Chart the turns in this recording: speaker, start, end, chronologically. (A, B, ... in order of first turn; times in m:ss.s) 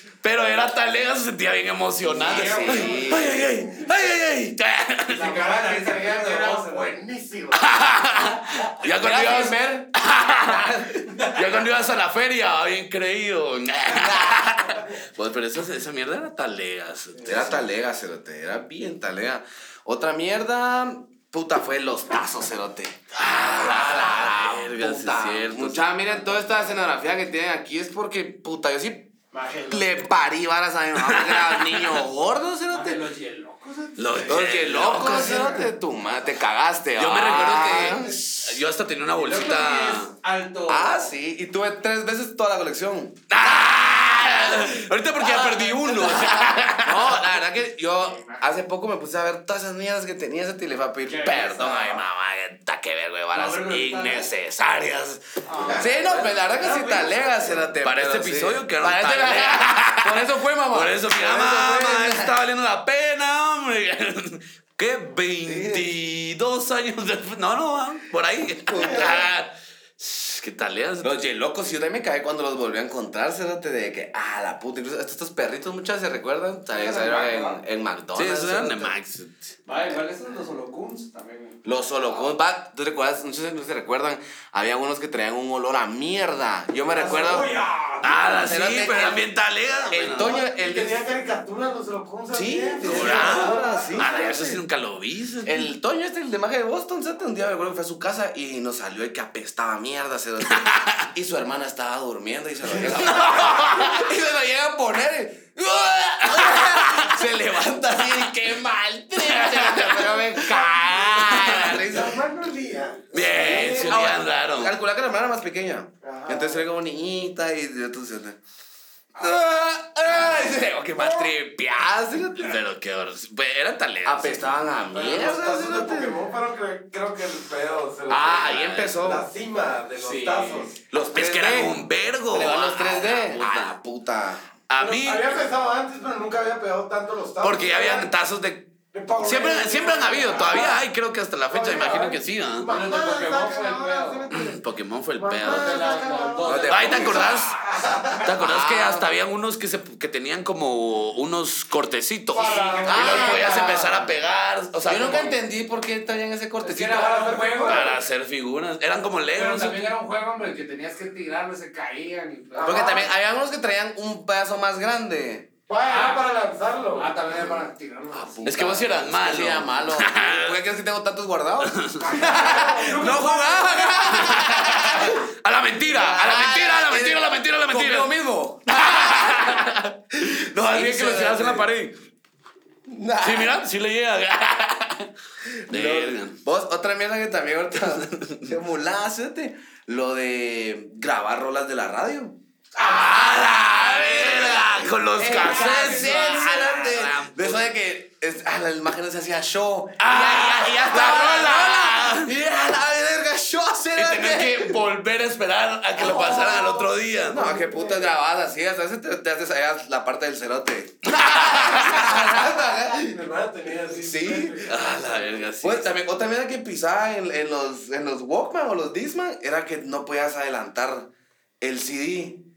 0:00.2-0:05.3 A
0:02.0-0:03.9 B
0:02.2-0:03.3 C
0:02.6-0:02.9 D
0:05.1-0:07.0 C
0:05.1-0:07.8 D
0:07.5-0:17.6 A
0:08.8-0:09.9 B
0:10.4-0:11.1 B
0:13.9-0:14.8 B
0:17.2-0:29.1 B
0:23.2-0:26.0 A
0:29.3-0:30.0 C
0:29.7-0:33.0 B
0:31.0-0:32.0 A
0:32.7-0:35.7 C
0:34.0-0:35.4 A
0:34.3-0:38.6 B
0:35.0-0:35.7 D
0:37.0-0:40.1 A
0:39.1-0:41.1 C
0:40.7-0:43.2 B
0:43.3-0:47.4 A
0:44.3-1:02.3 B
0:48.0-0:48.4 C
0:51.0-0:52.0 C
0:53.3-0:54.3 C
0:55.4-0:57.7 C
0:55.5-0:56.1 D
0:57.8-1:11.2 A
1:05.4-1:05.9 B
1:08.7-1:09.3 B
1:08.8-1:09.2 D
1:11.0-1:18.9 B
1:16.7-1:17.6 C
1:18.1-1:19.5 A
1:19.6-1:21.6 C
1:21.6-1:27.5 B
1:26.9-1:28.5 C
1:28.0-1:30.4 A
1:28.4-1:29.2 B
1:29.9-1:31.0 B
1:30.2-1:34.2 D
1:32.3-1:34.6 B
1:32.8-1:35.7 A
1:35.4-1:52.2 B
1:40.6-1:41.0 A
1:42.7-1:43.4 D
1:42.9-1:44.1 A
1:46.3-1:47.2 A
1:48.0-1:48.3 A
1:49.2-1:51.8 A
1:51.6-1:53.9 D
1:53.1-1:54.8 A
1:53.2-1:58.4 B
1:56.0-1:56.6 D
1:59.2-2:02.6 B
2:00.1-2:01.4 A
2:02.4-2:04.5 A
2:04.0-2:06.2 B
2:04.9-2:10.8 D
2:08.1-2:09.2 B
2:08.1-2:08.9 A
2:10.0-2:10.7 C
2:10.9-2:11.8 B
2:11.0-2:13.7 A
2:12.3-2:14.5 B
2:14.7-2:15.5 A
2:14.8-2:18.1 D
2:17.4-2:22.7 A
2:18.9-2:20.8 D
2:21.5-2:24.6 D
2:22.7-2:24.2 C
2:24.3-2:25.9 A
2:25.1-2:28.3 D
2:25.4-2:27.3 C
2:26.4-2:27.5 B
2:26.7-2:27.6 A
2:28.2-2:35.3 A
2:28.3-2:29.1 B
2:32.3-2:33.6 D
2:32.3-2:33.9 C
2:32.8-2:34.1 B
2:34.8-2:37.3 B
2:36.6-2:38.0 C
2:36.9-2:37.9 D
2:37.6-2:39.9 A
2:39.3-2:43.1 C
2:42.5-2:43.1 D
2:42.6-2:45.5 B
2:45.7-2:47.1 D
2:45.8-2:46.2 C
2:47.0-2:48.4 C
2:47.3-2:55.2 B
2:48.4-2:50.6 A
2:51.6-2:52.4 A
2:52.0-2:54.2 D
2:54.0-2:58.1 A
2:55.8-2:59.8 B
2:58.7-3:01.9 A
3:00.6-3:01.7 B
3:02.9-3:03.6 B
3:03.2-3:05.1 A
3:05.7-3:06.4 A
3:05.7-3:24.8 B
3:07.8-3:08.5 A
3:12.8-3:17.7 A
3:15.4-3:16.4 C
3:20.0-3:22.3 A
3:24.0-3:27.4 A
3:26.0-3:28.1 D
3:27.3-3:33.2 B
3:31.0-3:32.1 A
3:32.0-3:35.4 D
3:34.0-3:34.7 B
3:34.7-3:35.9 A
3:35.6-3:41.1 B
3:41.6-3:42.4 B